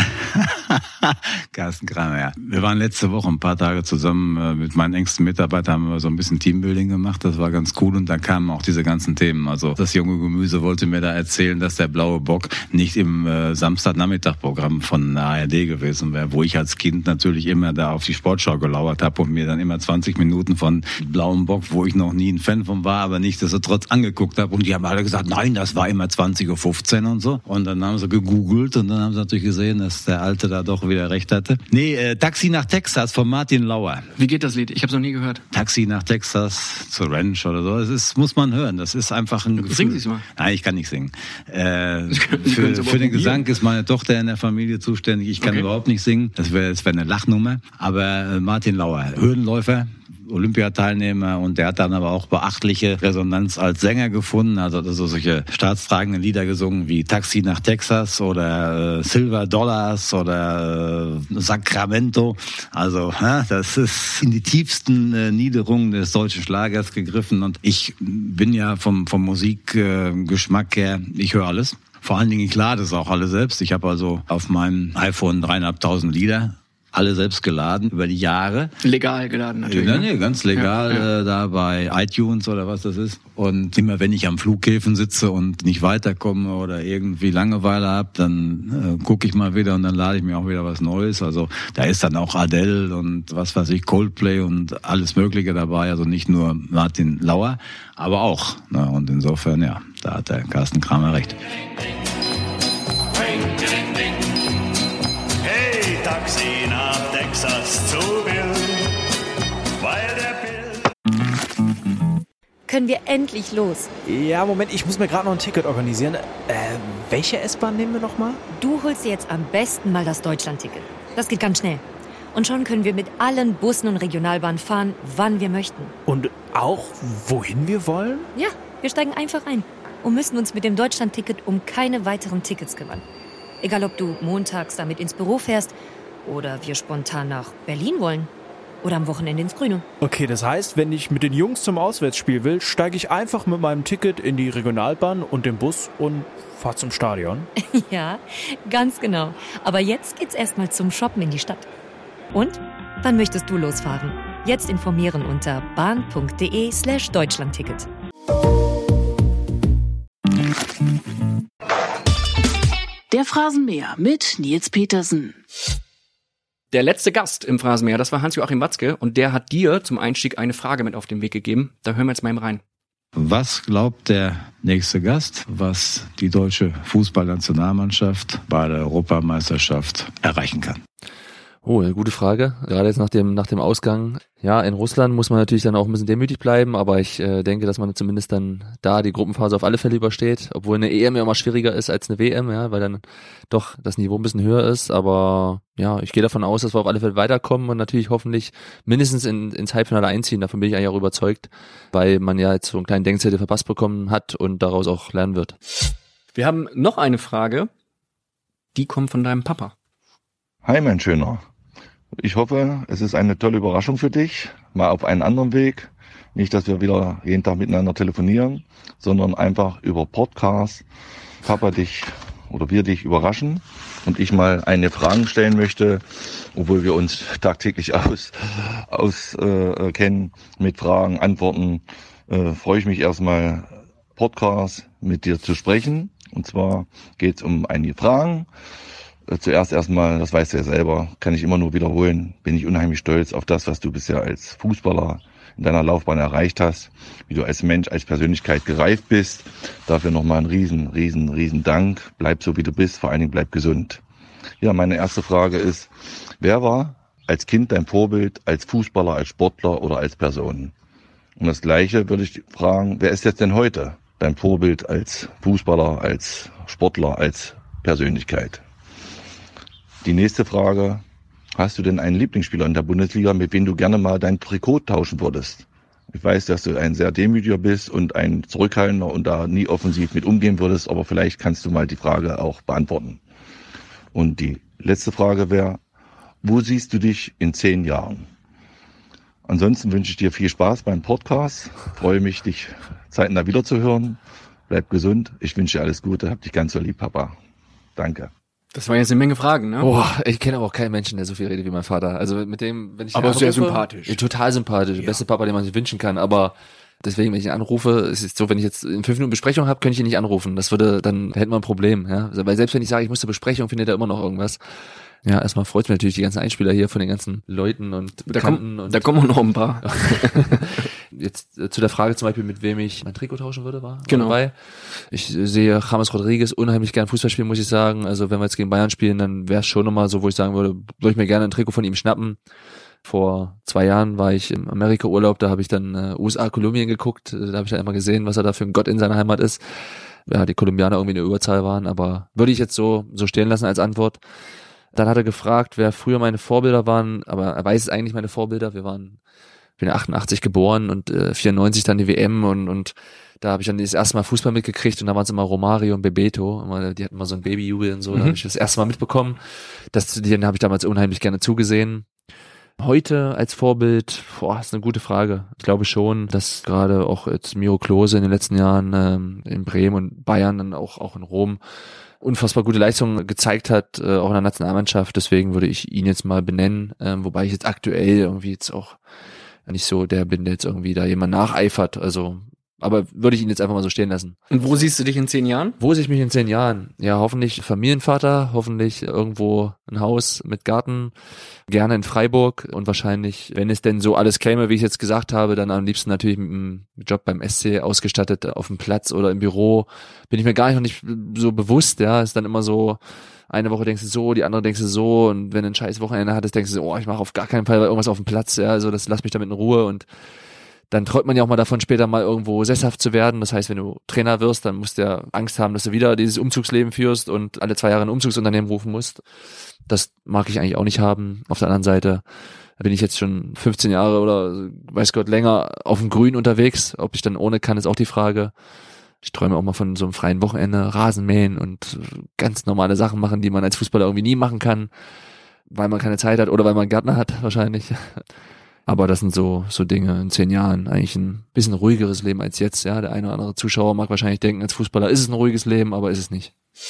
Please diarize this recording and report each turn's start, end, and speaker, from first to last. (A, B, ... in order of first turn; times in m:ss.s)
0:00.4-0:34.1 A
0:34.2-0:35.4 B
0:35.5-1:18.7 A
0:39.6-0:40.2 B
0:42.1-0:43.4 B
0:45.4-0:45.6 B
1:18.8-1:21.1 B
1:19.6-1:41.4 A
1:52.7-1:53.9 C
1:54.0-1:58.4 D
1:58.5-2:01.8 C
2:02.3-2:05.9 C
2:06.0-2:08.3 D
2:08.3-2:13.0 C
2:13.6-2:15.7 C
2:16.2-2:18.3 C
2:18.8-2:19.8 C
2:20.0-2:27.5 D
2:27.6-2:31.7 C
2:32.3-2:37.9 C
2:43.1-2:45.4 E
2:46.7-2:52.6 B
2:53.2-3:00.8 A
3:01.6-3:25.5 F
3:26.3-3:27.7 B
3:28.7-3:29.7 B
3:30.6-3:31.4 G
3:32.2-3:40.8 G
3:41.4-3:58.5 G
3:59.3-4:14.0 G
4:14.6-4:20.7 G
4:21.4-4:28.6 G
4:30.0-4:31.0 G
4:31.5-4:43.2 G
4:44.1-4:45.8 G
4:46.4-4:48.3 G
4:49.4-4:57.4 G
4:58.0-4:58.3 G
4:58.7-4:59.9 B
4:59.8-5:14.6 F
5:03.1-5:04.2 B
5:15.2-5:19.2 F
5:18.3-5:20.6 B
5:19.8-5:32.4 F
5:24.0-5:24.4 B
5:33.0-5:44.2 F
5:44.9-5:49.2 F
5:49.8-6:02.1 F
5:58.1-5:58.4 B
6:02.8-6:11.6 F
6:12.2-6:19.0 F
6:19.6-6:24.4 F
6:24.5-6:25.8 B
6:25.8-6:31.1 F
6:31.7-6:50.1 F
6:50.9-6:59.2 F
6:59.9-7:02.2 F
7:02.8-7:08.5 F
7:09.2-7:14.9 F
7:15.7-7:18.2 F
7:18.9-7:26.5 F